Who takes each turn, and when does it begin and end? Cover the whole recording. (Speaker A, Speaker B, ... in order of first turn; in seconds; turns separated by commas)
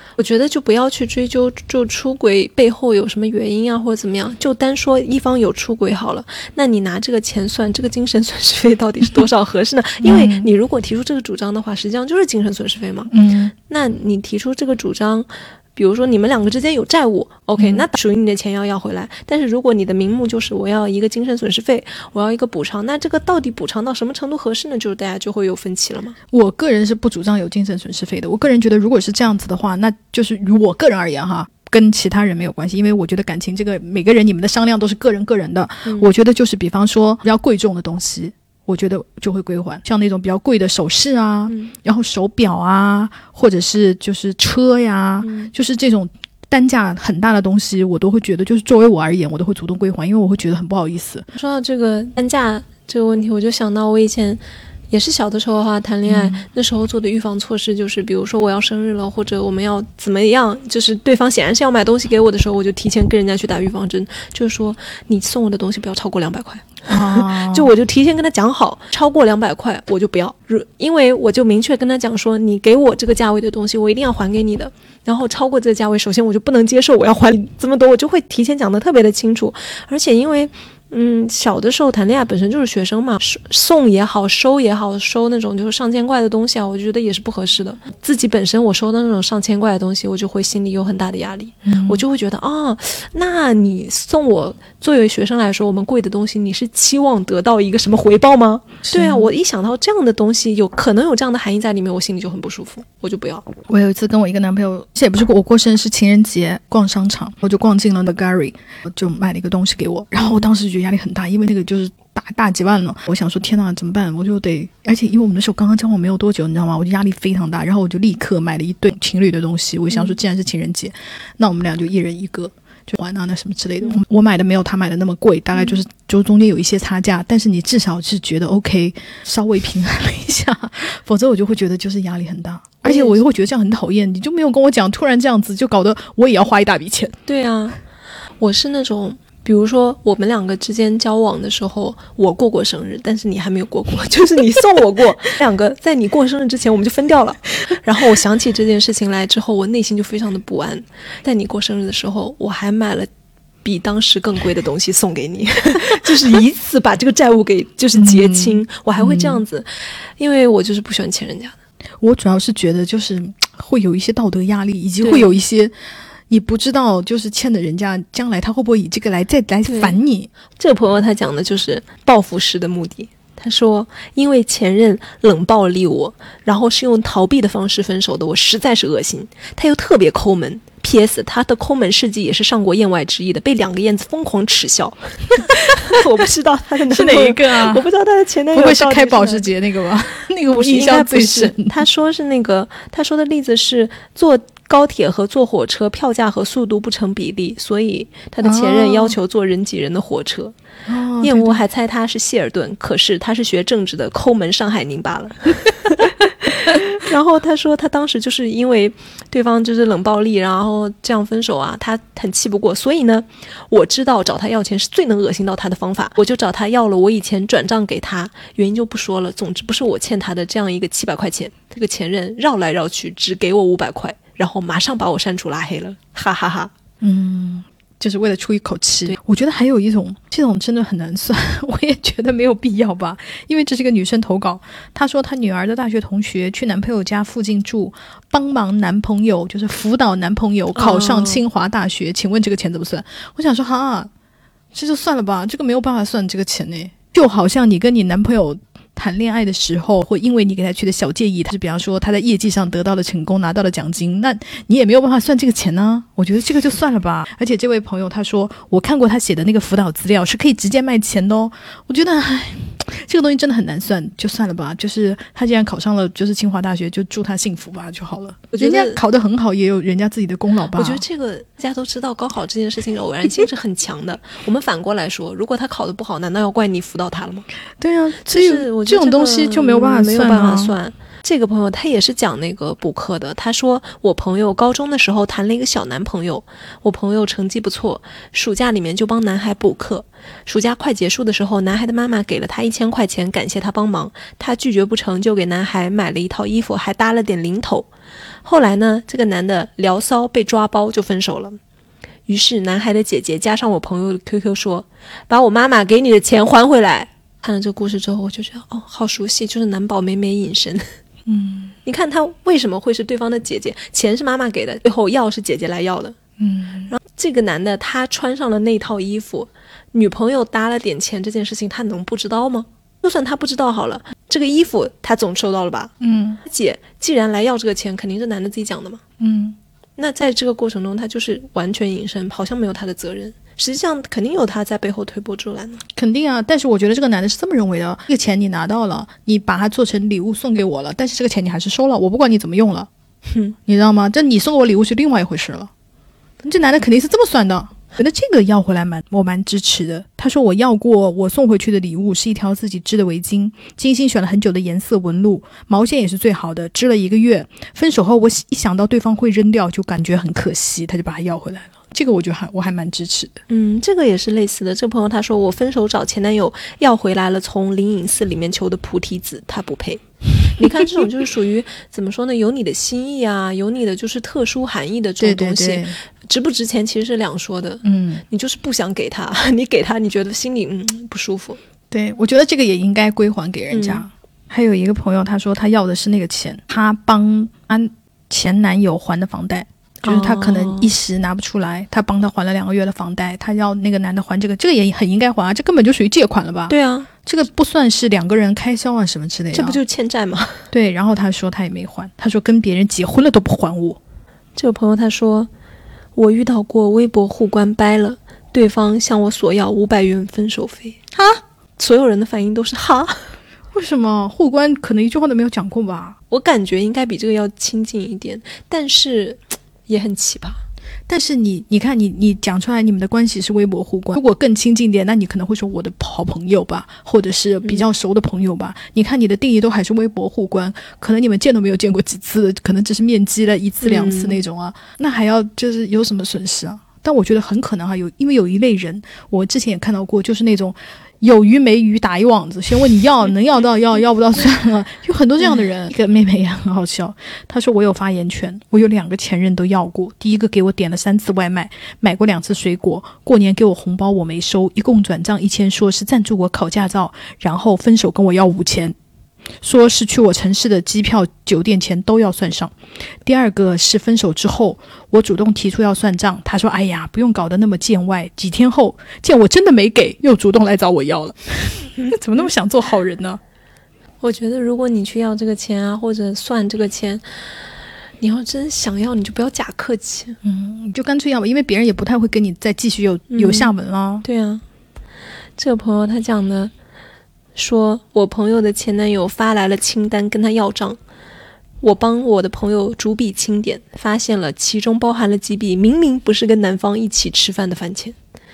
Speaker A: 0.2-26.2, Speaker B: 10.0-10.5, Speaker B: 13.1-13.5, Speaker B: 17.6-17.8, Speaker B: 26.3-51.3, Speaker A: 45.2-45.5, Speaker A: 51.3-103.5, Speaker B: 56.1-56.4, Speaker B: 66.9-67.7, Speaker B: 91.6-92.0, Speaker B: 98.8-99.3, Speaker B: 103.7-137.2, Speaker A: 110.2-110.5, Speaker A: 119.9-120.2, Speaker A: 132.8-133.2, Speaker A: 137.3-137.8, Speaker A: 138.4-153.1, Speaker A: 153.6-161.5, Speaker B: 157.9-159.4, Speaker B: 162.0-165.7, Speaker A: 165.0-165.4, Speaker B: 166.3-170.3, Speaker A: 169.7-170.0, Speaker A: 170.6-189.5, Speaker B: 186.9-187.8, Speaker B: 188.5-191.8, Speaker A: 190.5-200.5, Speaker B: 198.4-199.2, Speaker B: 200.9-201.6, Speaker A: 201.2-226.7, Speaker B: 227.0-244.1, Speaker A: 240.7-241.4, Speaker B: 244.7-271.0, Speaker A: 268.5-269.0, Speaker A: 270.7-277.4, Speaker B: 277.8-280.7, Speaker A: 278.2-297.9, Speaker A: 298.4-301.6, Speaker A: 302.3-310.9, Speaker B: 311.3-311.7, Speaker A: 311.8-316.1, Speaker B: 316.4-316.9, Speaker A: 316.9-325.9, Speaker B: 326.0-326.4, Speaker A: 326.4-329.0, Speaker B: 329.2-329.6, Speaker A: 330.0-335.8, Speaker B: 335.9-342.9, Speaker A: 343.3-343.5, Speaker B: 343.7-345.7, Speaker B: 346.4-363.4, Speaker A: 363.5-381.6, Speaker B: 375.2-376.0, Speaker B: 377.8-378.2, Speaker B: 381.9-399.8, Speaker A: 383.7-384.0, Speaker A: 390.0-390.9, Speaker A: 396.7-397.1, Speaker A: 399.5-400.6, Speaker B: 400.7-404.0, Speaker A: 404.6-405.5, Speaker A: 406.1-411.0, Speaker B: 411.1-411.4, Speaker A: 411.8-413.3, Speaker B: 413.7-416.2, Speaker A: 416.3-420.6, Speaker B: 421.1-458.9, Speaker A: 433.8-434.4, Speaker B: 459.6-473.4, Speaker A: 474.2-477.5, Speaker A: 478.2-480.4, Speaker B: 480.4-484.2, Speaker A: 483.3-483.7, Speaker A: 484.2-484.6, Speaker A: 485.6-486.7, Speaker A: 487.5-491.0, Speaker A: 491.8-498.1